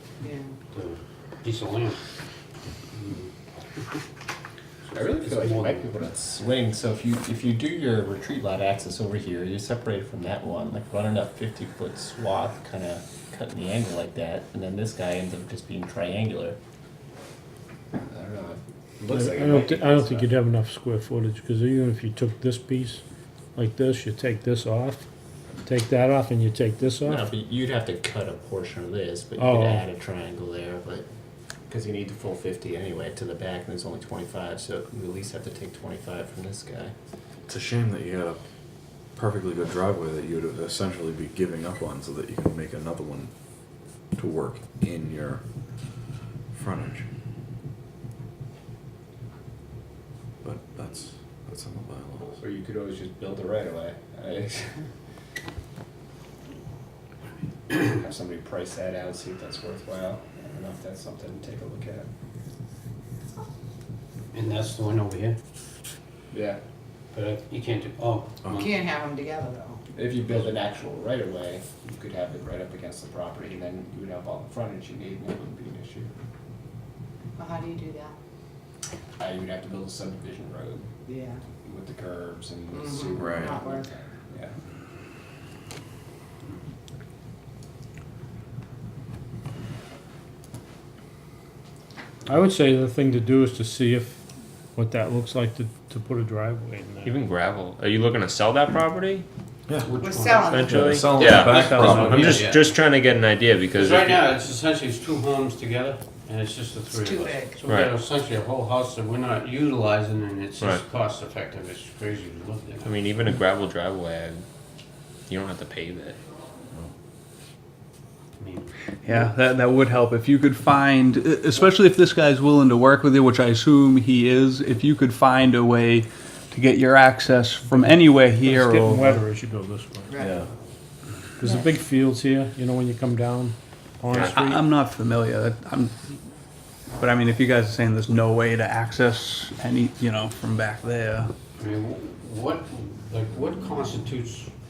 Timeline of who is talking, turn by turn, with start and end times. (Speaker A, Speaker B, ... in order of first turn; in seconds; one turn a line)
Speaker A: 0.2-0.5
Speaker B: 0.7-2.0
Speaker B: 2.9-3.3
Speaker B: 4.9-5.9
Speaker C: 4.9-16.6
Speaker C: 17.9-20.3
Speaker D: 19.1-23.0
Speaker D: 23.5-25.0
Speaker D: 25.6-27.3
Speaker C: 27.0-31.0
Speaker D: 29.4-29.8
Speaker C: 31.7-36.9
Speaker E: 37.5-38.4
Speaker E: 39.2-43.3
Speaker E: 44.1-45.4
Speaker E: 46.5-47.0
Speaker E: 50.4-52.4
Speaker C: 52.4-54.8
Speaker C: 57.7-62.0
Speaker B: 64.3-65.4
Speaker C: 66.3-66.6
Speaker B: 67.1-68.8
Speaker A: 68.5-69.8
Speaker C: 69.9-76.1
Speaker A: 77.4-78.1
Speaker C: 79.2-80.8
Speaker A: 81.0-81.4
Speaker C: 81.5-84.5
Speaker A: 82.7-83.9
Speaker E: 83.2-83.5
Speaker D: 92.3-94.2
Speaker D: 94.8-97.1
Speaker F: 97.0-99.2
Speaker B: 99.8-102.8
Speaker A: 100.0-100.9
Speaker F: 100.5-104.3
Speaker E: 100.7-102.4
Speaker D: 101.7-102.0
Speaker B: 103.7-113.1
Speaker A: 106.9-107.6
Speaker F: 107.7-107.9
Speaker F: 112.8-114.4
Speaker F: 115.3-116.2
Speaker B: 118.4-118.7
Speaker G: 119.0-129.2
Speaker D: 127.7-130.1
Speaker A: 130.1-130.4
Speaker E: 130.2-130.4
Speaker D: 131.4-134.6
Speaker F: 134.1-134.4
Speaker G: 134.2-136.0
Speaker G: 137.0-141.3
Speaker B: 141.6-144.5